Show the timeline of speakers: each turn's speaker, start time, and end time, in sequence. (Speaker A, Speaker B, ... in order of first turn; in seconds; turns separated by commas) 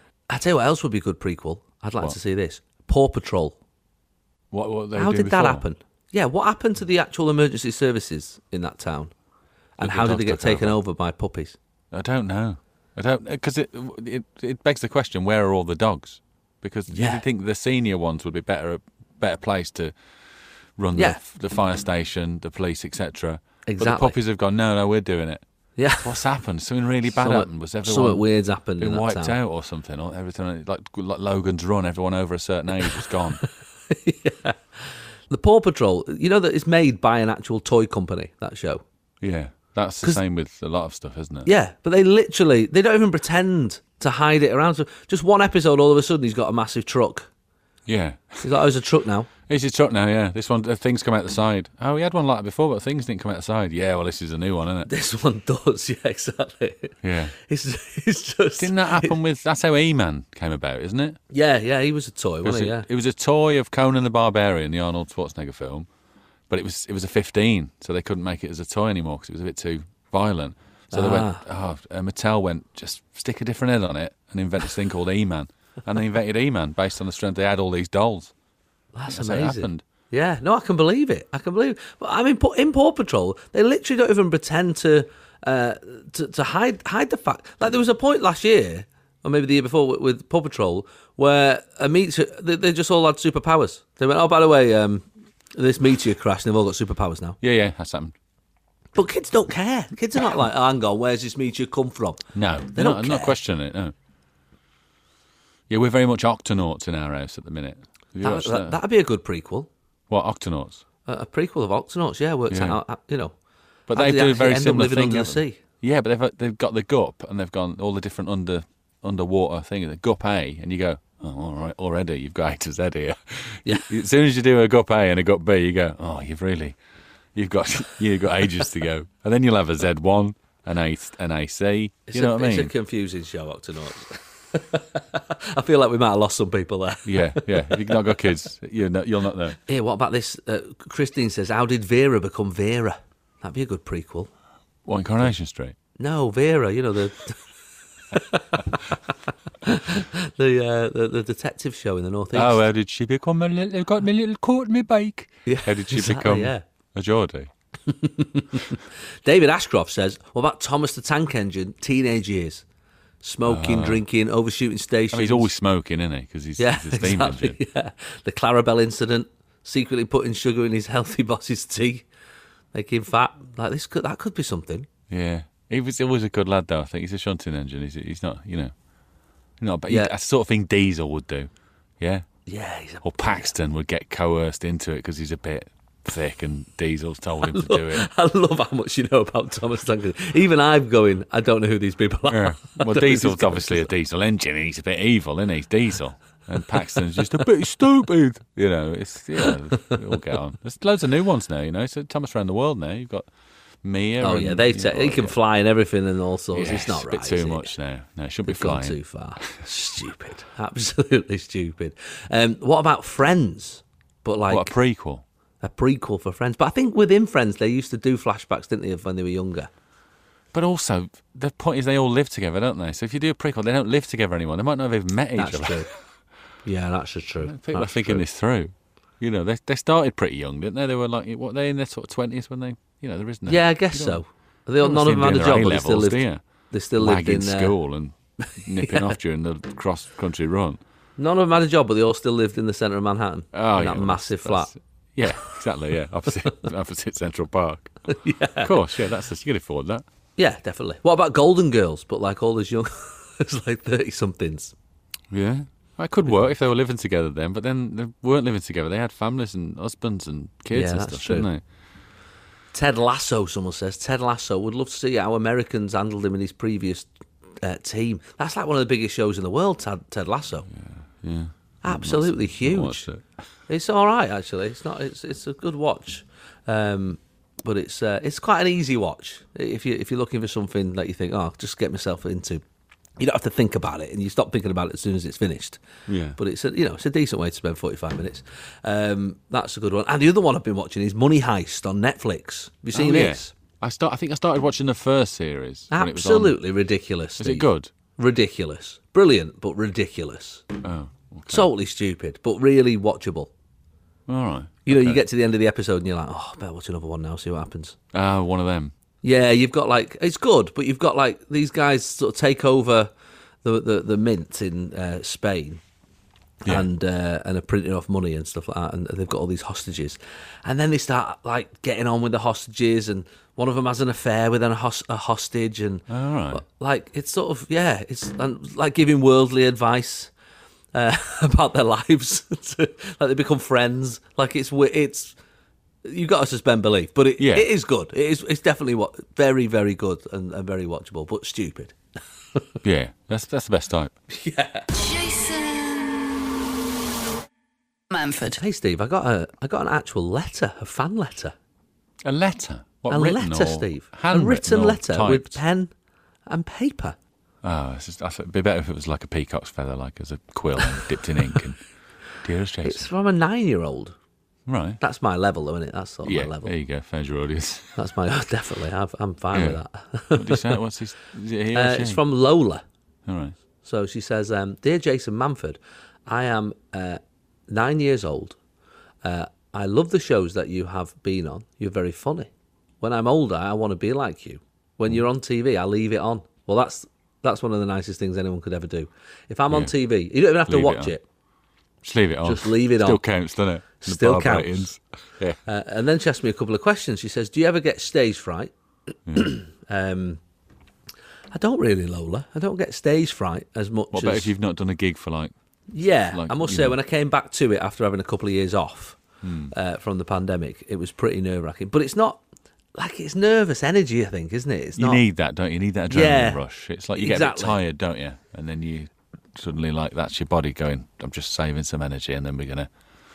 Speaker A: 0.3-3.6, Speaker B: 4.5-5.7, Speaker A: 4.9-9.1, Speaker A: 9.8-11.6, Speaker B: 9.8-10.8, Speaker B: 11.9-19.9, Speaker A: 16.9-17.2, Speaker B: 20.8-25.4, Speaker A: 23.6-24.2, Speaker A: 25.8-26.1, Speaker B: 26.0-28.2, Speaker A: 27.1-29.4, Speaker B: 28.8-33.4, Speaker A: 33.9-34.6, Speaker A: 35.3-38.8, Speaker B: 39.2-41.5, Speaker A: 41.4-47.3, Speaker B: 47.9-48.4, Speaker A: 48.4-49.3, Speaker B: 49.5-54.9, Speaker A: 54.9-59.2, Speaker B: 57.0-57.3, Speaker B: 58.6-61.2, Speaker A: 61.3-62.9, Speaker B: 62.4-65.9, Speaker B: 66.5-78.3, Speaker A: 70.9-71.4, Speaker A: 78.9-97.4, Speaker B: 79.1-79.8, Speaker B: 97.4-98.1, Speaker A: 98.9-103.4, Speaker B: 102.3-103.9, Speaker B: 105.7-108.8, Speaker A: 108.2-109.7, Speaker B: 110.1-110.8, Speaker A: 111.0-113.3, Speaker B: 112.5-112.8, Speaker B: 113.9-126.8, Speaker A: 113.9-115.6, Speaker B: 127.3-132.7, Speaker A: 132.1-138.1, Speaker B: 137.0-139.6, Speaker A: 139.7-144.3, Speaker B: 144.8-145.8, Speaker A: 146.0-147.4, Speaker A: 148.1-152.6, Speaker B: 152.3-157.5, Speaker A: 155.4-156.6, Speaker A: 157.8-162.6, Speaker A: 163.2-165.5, Speaker B: 163.4-164.0, Speaker B: 165.1-167.6, Speaker A: 166.6-172.1, Speaker A: 172.7-174.9, Speaker B: 175.1-178.7, Speaker B: 179.6-182.3, Speaker A: 179.9-180.1, Speaker A: 182.4-183.5, Speaker B: 183.0-188.1, Speaker A: 187.5-193.9, Speaker B: 192.3-203.3, Speaker B: 203.8-205.4, Speaker A: 204.2-207.7, Speaker B: 206.5-209.0, Speaker A: 208.4-214.7, Speaker B: 214.5-215.2, Speaker A: 215.6-219.7, Speaker B: 220.5-225.9, Speaker A: 225.3-225.9, Speaker A: 226.6-228.2, Speaker B: 227.4-234.2, Speaker A: 233.5-237.8, Speaker B: 234.8-236.4, Speaker B: 237.0-240.8, Speaker A: 238.5-239.1, Speaker A: 241.2-244.7, Speaker B: 243.5-248.0, Speaker A: 248.1-248.8, Speaker B: 248.6-250.0, Speaker A: 250.4-254.7, Speaker B: 255.3-261.6, Speaker A: 260.7-261.5, Speaker A: 262.7-267.1, Speaker A: 267.6-270.7, Speaker B: 270.7-273.2, Speaker A: 271.8-273.1, Speaker A: 273.7-282.6, Speaker A: 283.2-285.8, Speaker B: 286.1-286.4, Speaker A: 286.4-293.5, Speaker B: 292.9-296.6, Speaker A: 295.9-300.6, Speaker B: 297.4-297.9, Speaker B: 300.8-301.7, Speaker A: 301.5-303.5, Speaker B: 304.3-305.2, Speaker A: 304.9-308.0, Speaker B: 308.1-308.9, Speaker A: 309.2-313.1, Speaker A: 313.6-315.8, Speaker A: 316.6-330.3, Speaker B: 326.1-326.6, Speaker A: 330.9-335.4, Speaker A: 336.0-341.9, Speaker B: 337.4-337.7, Speaker B: 342.8-344.1, Speaker A: 344.3-344.9, Speaker C: 344.9-346.4, Speaker C: 348.1-348.6, Speaker A: 348.6-351.5, Speaker B: 352.2-355.6, Speaker A: 353.1-355.9, Speaker A: 356.5-357.1, Speaker B: 357.6-361.8, Speaker B: 362.4-363.1, Speaker A: 362.8-364.1, Speaker B: 364.6-365.0, Speaker A: 365.0-366.7, Speaker B: 366.2-368.0, Speaker A: 367.9-370.8, Speaker B: 369.5-369.8, Speaker B: 370.3-372.2, Speaker A: 371.7-372.8, Speaker B: 373.2-373.5, Speaker A: 373.8-378.6, Speaker A: 379.2-382.5, Speaker A: 383.0-391.2, Speaker B: 390.7-391.1, Speaker B: 392.0-395.6, Speaker A: 392.4-393.2, Speaker A: 394.0-394.9, Speaker A: 395.6-398.7, Speaker B: 399.3-399.5, Speaker A: 399.3-400.4, Speaker A: 401.5-404.5, Speaker B: 404.1-405.5, Speaker A: 405.9-412.4, Speaker B: 406.3-407.0, Speaker B: 409.4-409.7, Speaker A: 412.9-415.2, Speaker B: 415.0-422.9, Speaker A: 416.1-416.6, Speaker A: 417.1-417.8